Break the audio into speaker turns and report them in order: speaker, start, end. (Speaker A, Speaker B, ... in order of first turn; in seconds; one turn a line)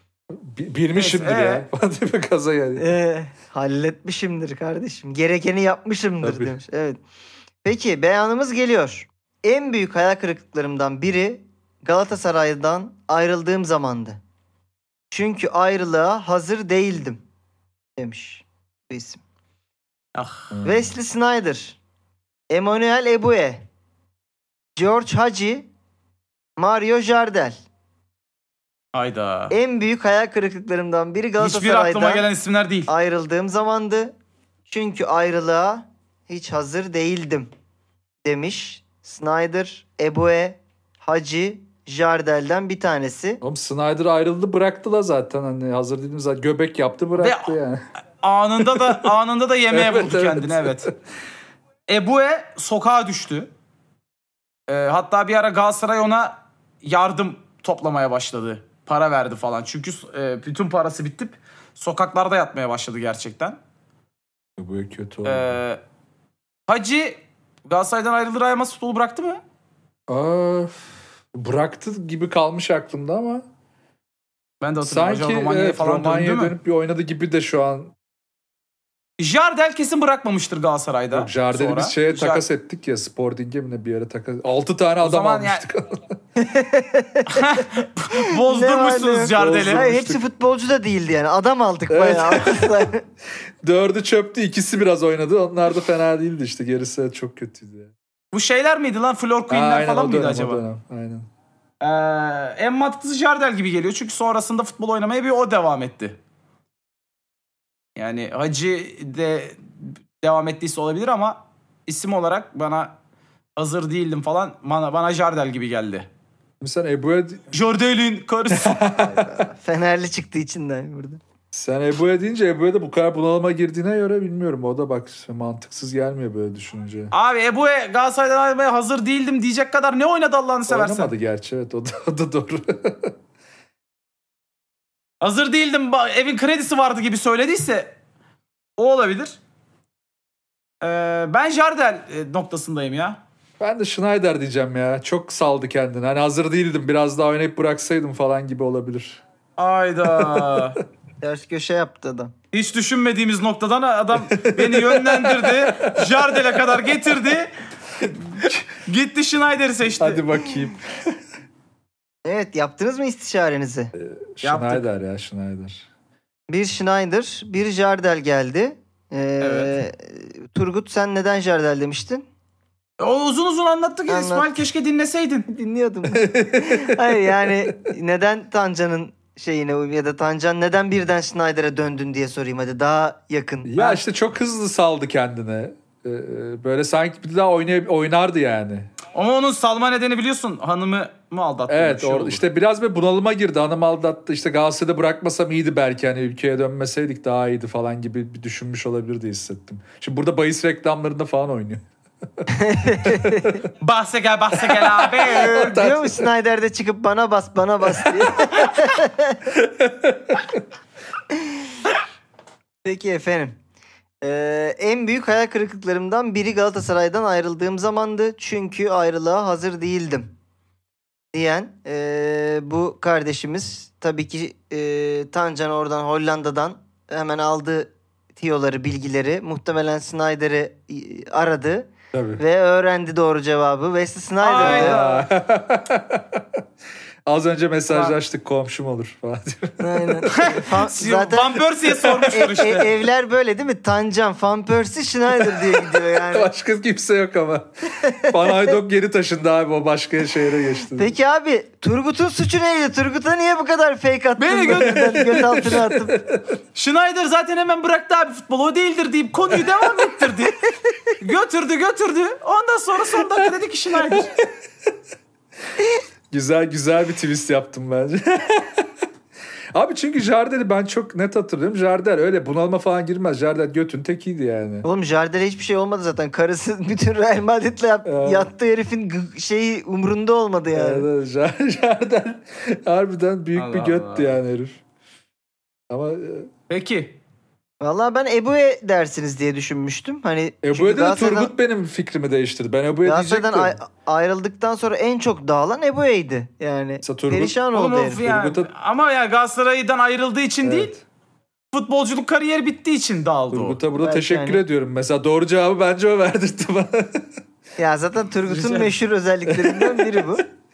Speaker A: 0.3-2.9
Speaker B: 0.9-1.6
Speaker C: 2.8-7.0
Speaker A: 6.2-6.5
Speaker C: 7.6-14.2
Speaker C: 15.1-17.2
Speaker C: 18.0-19.2
Speaker B: 20.1-20.5
Speaker A: 20.5-20.9
Speaker C: 20.6-21.8
Speaker C: 22.5-23.6
Speaker C: 24.8-25.7
Speaker C: 26.6-27.6
Speaker B: 28.9-29.5
Speaker C: 29.5-32.2
Speaker B: 31.4-32.9
Speaker C: 32.9-34.1
Speaker C: 34.7-37.5
Speaker C: 38.2-43.4
Speaker A: 43.4-47.8
Speaker B: 47.2-47.5
Speaker B: 48.2-50.9
Speaker A: 48.6-49.1
Speaker A: 49.7-51.0
Speaker B: 51.9-53.5
Speaker B: 54.7-63.6
Speaker A: 64.6-65.6
Speaker B: 65.2-65.8
Speaker B: 66.7-69.4
Speaker A: 70.1-73.5
Speaker B: 74.6-76.5
Speaker A: 74.8-77.9
Speaker B: 79.2-82.4
Speaker A: 81.1-86.0
Speaker B: 85.0-85.6
Speaker C: 86.4-87.6
Speaker B: 87.3-89.9
Speaker C: 88.2-93.0
Speaker A: 89.3-90.2
Speaker A: 91.9-92.9
Speaker A: 93.6-97.9
Speaker B: 98.3-100.6
Speaker A: 99.5-101.3
Speaker B: 101.8-106.2
Speaker B: 108.0-112.9
Speaker B: 113.6-116.1
Speaker A: 116.6-117.5
Speaker B: 117.5-118.9
Speaker A: 118.5-119.3
Speaker C: 119.0-121.2
Speaker A: 121.5-127.1
Speaker B: 127.1-131.1
Speaker A: 130.7-133.1
Speaker B: 135.2-137.9
Speaker B: 138.8-139.4
Speaker B: 140.8-143.2
Speaker A: 143.6-149.2
Speaker B: 149.6-150.8
Speaker A: 150.1-150.7
Speaker C: 151.2-152.3
Speaker B: 152.5-157.5
Speaker A: 154.2-156.9
Speaker A: 158.0-158.6
Speaker B: 158.4-160.2
Speaker A: 160.0-161.2
Speaker C: 162.2-163.9
Speaker A: 163.9-165.9
Speaker B: 164.4-164.8
Speaker C: 166.5-172.2
Speaker B: 169.4-169.7
Speaker B: 173.0-175.5
Speaker C: 174.1-174.6
Speaker C: 175.5-183.8
Speaker A: 176.1-177.7
Speaker A: 183.6-188.9
Speaker B: 189.1-192.4
Speaker A: 191.7-201.8
Speaker A: 202.4-203.7
Speaker C: 202.5-203.6
Speaker B: 203.8-205.8
Speaker A: 204.6-206.3
Speaker C: 205.3-209.5
Speaker A: 208.1-208.6
Speaker A: 209.5-210.6
Speaker C: 211.3-211.8
Speaker C: 212.8-213.6
Speaker C: 214.2-220.3
Speaker C: 221.3-235.0
Speaker A: 232.1-232.4
Speaker B: 234.4-235.3
Speaker A: 234.6-236.6
Speaker A: 237.3-240.6
Speaker B: 237.9-238.2
Speaker C: 239.8-241.6
Speaker B: 240.3-242.9
Speaker A: 241.9-242.3
Speaker C: 242.2-246.5
Speaker A: 245.3-247.7
Speaker C: 248.0-248.8
Speaker A: 248.2-251.1
Speaker C: 250.9-256.2
Speaker B: 254.4-255.1
Speaker A: 254.7-256.4
Speaker B: 256.7-260.6
Speaker B: 261.2-264.3
Speaker A: 264.1-264.5
Speaker A: 266.3-268.9
Speaker A: 269.7-274.9
Speaker C: 274.8-281.1
Speaker A: 278.1-278.5
Speaker A: 280.7-284.8
Speaker B: 283.6-284.4
Speaker A: 285.9-286.5
Speaker B: 286.7-287.2
Speaker C: 287.8-291.5
Speaker A: 290.6-293.8
Speaker C: 293.1-298.2
Speaker A: 297.0-297.6
Speaker B: 297.7-300.9
Speaker A: 298.2-298.7
Speaker A: 300.6-301.0
Speaker B: 301.7-303.8
Speaker A: 303.5-307.3
Speaker C: 303.9-304.6
Speaker C: 307.8-310.4
Speaker B: 308.4-309.0
Speaker A: 309.5-310.4